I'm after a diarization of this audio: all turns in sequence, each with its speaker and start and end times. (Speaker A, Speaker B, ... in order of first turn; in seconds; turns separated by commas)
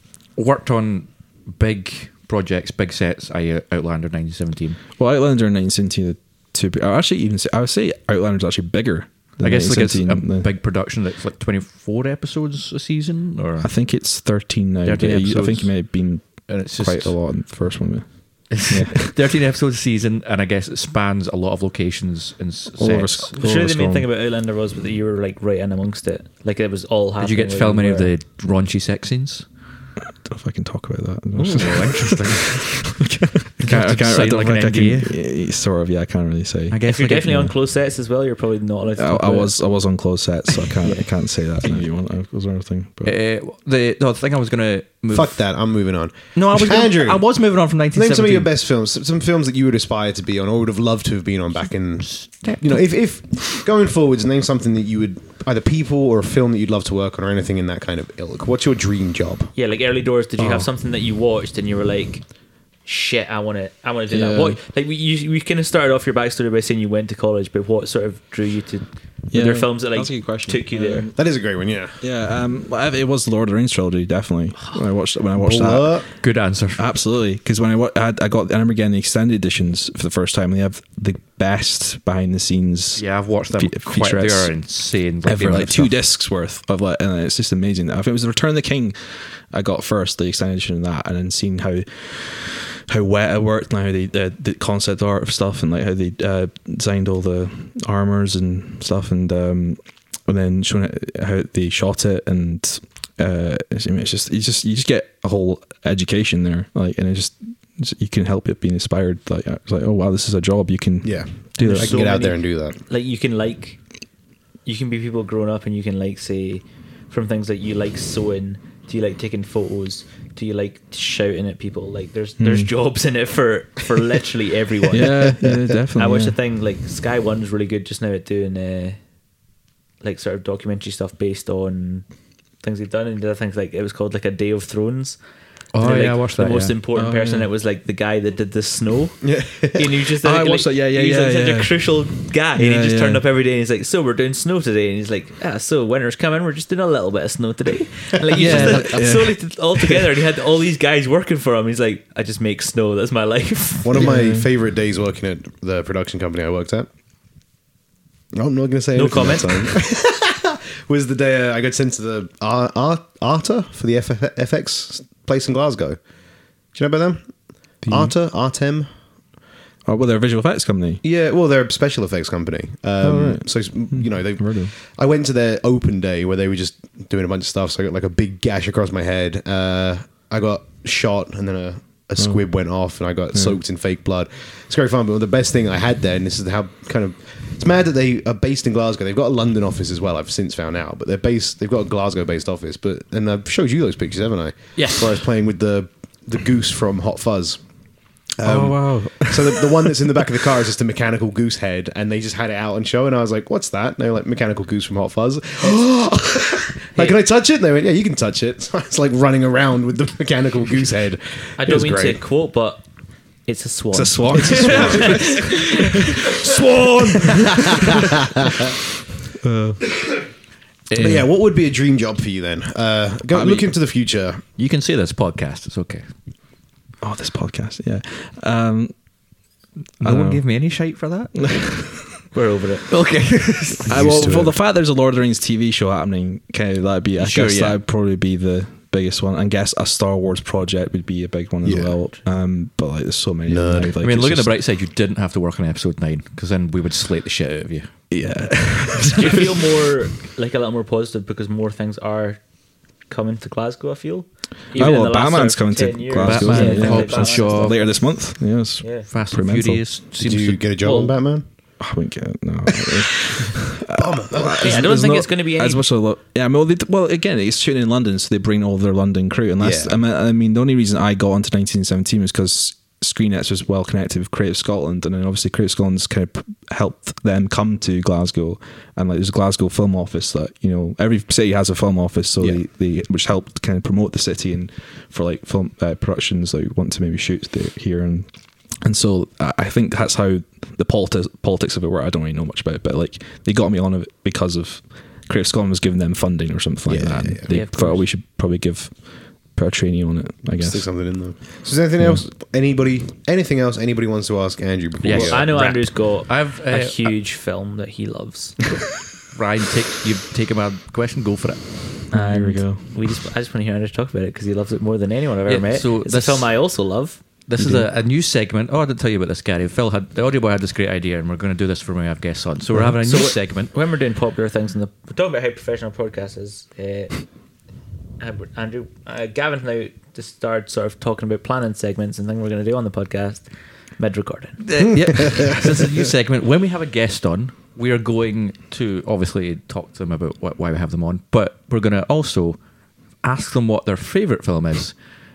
Speaker A: 0.3-4.8, Speaker B: 5.0-10.5, Speaker A: 9.4-13.7, Speaker B: 13.6-19.1, Speaker A: 14.8-17.2, Speaker A: 18.5-23.4, Speaker B: 22.8-24.1, Speaker C: 23.4-28.1, Speaker A: 27.2-29.4, Speaker B: 30.2-36.8, Speaker A: 31.4-33.0, Speaker A: 33.6-35.1, Speaker A: 36.7-37.5, Speaker C: 36.9-39.5, Speaker B: 39.0-43.1, Speaker A: 43.0-45.4, Speaker D: 45.1-47.3, Speaker A: 46.3-48.5, Speaker D: 47.9-59.5, Speaker A: 52.0-52.8, Speaker C: 59.5-62.2, Speaker B: 60.4-60.7, Speaker C: 62.8-71.1, Speaker B: 64.1-64.6, Speaker B: 69.3-71.2, Speaker D: 71.1-72.0, Speaker B: 72.0-76.1, Speaker D: 75.3-76.0, Speaker A: 76.2-76.9, Speaker B: 76.8-84.5, Speaker A: 83.0-86.0, Speaker B: 85.2-112.0, Speaker D: 111.0-112.8, Speaker C: 111.8-113.8, Speaker C: 114.6-129.0, Speaker B: 122.4-122.7, Speaker B: 124.9-126.3, Speaker C: 130.0-132.1, Speaker C: 132.6-135.2, Speaker A: 135.7-136.7, Speaker C: 135.8-154.1, Speaker B: 136.9-137.5, Speaker D: 139.2-139.8, Speaker B: 140.2-142.0, Speaker B: 142.5-143.2, Speaker D: 148.3-149.0, Speaker B: 148.3-150.1, Speaker D: 153.8-156.9, Speaker B: 153.9-154.5, Speaker D: 158.3-166.0, Speaker C: 158.9-159.7, Speaker D: 166.7-168.9, Speaker B: 167.8-168.1, Speaker B: 169.8-171.0, Speaker D: 171.0-197.6, Speaker B: 173.0-174.7, Speaker B: 182.2-182.4, Speaker A: 194.8-195.2, Speaker D: 198.4-212.2, Speaker B: 198.4-200.3, Speaker C: 211.6-212.8, Speaker C: 213.4-215.9, Speaker B: 213.9-216.3, Speaker D: 214.5-215.3, Speaker D: 216.1-218.8, Speaker B: 217.1-218.0, Speaker B: 219.4-219.9, Speaker A: 220.9-221.2, Speaker D: 220.9-224.4, Speaker B: 223.3-223.7, Speaker A: 224.6-226.1, Speaker B: 227.0-228.9, Speaker A: 230.0-231.4, Speaker B: 230.0-230.4, Speaker B: 231.4-232.2, Speaker C: 232.3-232.8, Speaker A: 232.9-234.3, Speaker D: 233.9-234.5, Speaker B: 233.9-244.5, Speaker A: 237.2-237.8, Speaker D: 241.6-242.0, Speaker D: 243.5-243.9, Speaker A: 244.0-247.9, Speaker B: 248.1-249.6, Speaker C: 249.0-252.4, Speaker C: 253.1-258.1, Speaker B: 254.7-259.8, Speaker A: 256.2-257.9, Speaker C: 258.8-259.1, Speaker A: 259.1-261.1, Speaker D: 260.2-261.4, Speaker B: 261.8-288.3, Speaker D: 262.8-264.9, Speaker C: 264.5-265.8, Speaker D: 269.6-270.0, Speaker B: 288.8-299.0, Speaker D: 296.9-297.5, Speaker C: 297.5-298.1, Speaker B: 299.5-301.0, Speaker D: 300.5-305.5, Speaker B: 302.0-302.2, Speaker A: 305.0-307.1, Speaker C: 305.1-308.6, Speaker A: 309.3-311.7, Speaker B: 312.1-312.8, Speaker C: 312.1-317.2, Speaker A: 315.5-316.5, Speaker A: 317.5-323.7, Speaker B: 317.6-317.9, Speaker C: 323.0-327.2, Speaker C: 328.2-333.4, Speaker C: 334.0-334.6, Speaker A: 334.6-342.6, Speaker A: 343.2-344.9